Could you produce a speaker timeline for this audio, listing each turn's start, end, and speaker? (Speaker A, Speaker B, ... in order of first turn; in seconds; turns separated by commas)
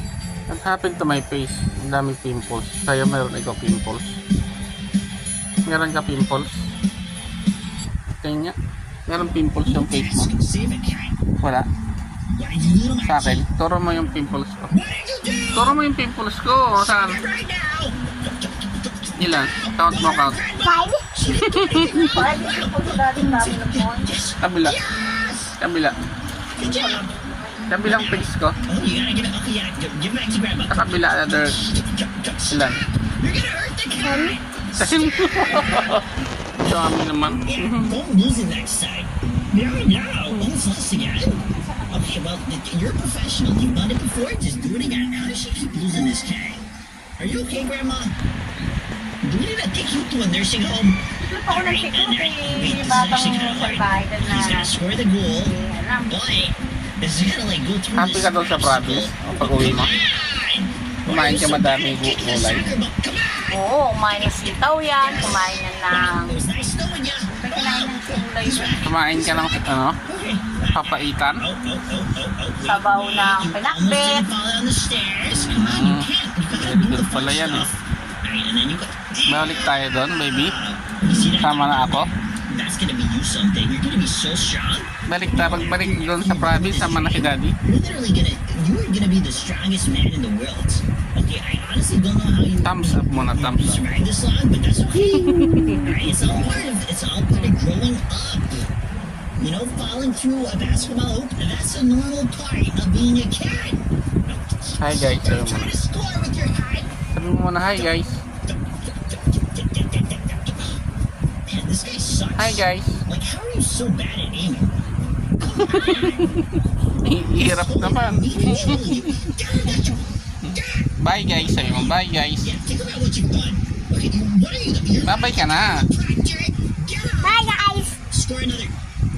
Speaker A: 0.5-4.2, Speaker A: 5.6-6.6, Speaker A: 8.2-8.6, Speaker A: 9.1-10.3, Speaker B: 9.6-11.2, Speaker A: 11.4-11.7, Speaker B: 12.3-13.5, Speaker A: 13.0-14.7, Speaker B: 14.7-15.8, Speaker A: 15.5-17.2, Speaker B: 16.7-25.5, Speaker A: 19.2-20.4, Speaker C: 20.6-21.0, Speaker A: 21.4-22.1, Speaker C: 22.0-24.1, Speaker A: 24.4-24.8, Speaker A: 25.6-25.9, Speaker B: 26.5-27.1, Speaker C: 26.6-27.7, Speaker A: 27.7-28.6, Speaker B: 27.8-36.0, Speaker A: 30.7-31.6, Speaker A: 32.5-32.8, Speaker C: 34.0-34.4, Speaker A: 34.8-36.0, Speaker B: 36.6-46.6, Speaker A: 36.6-38.0, Speaker C: 41.6-42.1, Speaker B: 47.2-48.1, Speaker B: 49.2-55.5, Speaker C: 51.2-54.7, Speaker C: 55.3-56.2, Speaker B: 56.1-63.6, Speaker A: 57.9-60.0, Speaker A: 61.0-62.8, Speaker C: 63.5-66.4, Speaker B: 64.2-98.7, Speaker C: 67.4-68.8, Speaker A: 68.8-70.0, Speaker A: 70.7-71.4, Speaker C: 72.6-74.2, Speaker A: 75.4-77.7, Speaker A: 79.3-80.6, Speaker A: 81.3-82.1, Speaker A: 85.1-87.6, Speaker A: 92.6-93.8, Speaker A: 95.1-95.9, Speaker B: 99.4-107.1, Speaker A: 104.8-105.8, Speaker A: 107.1-108.2, Speaker B: 107.7-110.8, Speaker B: 111.5-114.7, Speaker A: 112.3-113.0, Speaker B: 115.4-116.3, Speaker A: 115.6-119.2, Speaker B: 117.3-128.7, Speaker A: 120.4-122.5, Speaker A: 125.0-125.9, Speaker C: 127.2-127.9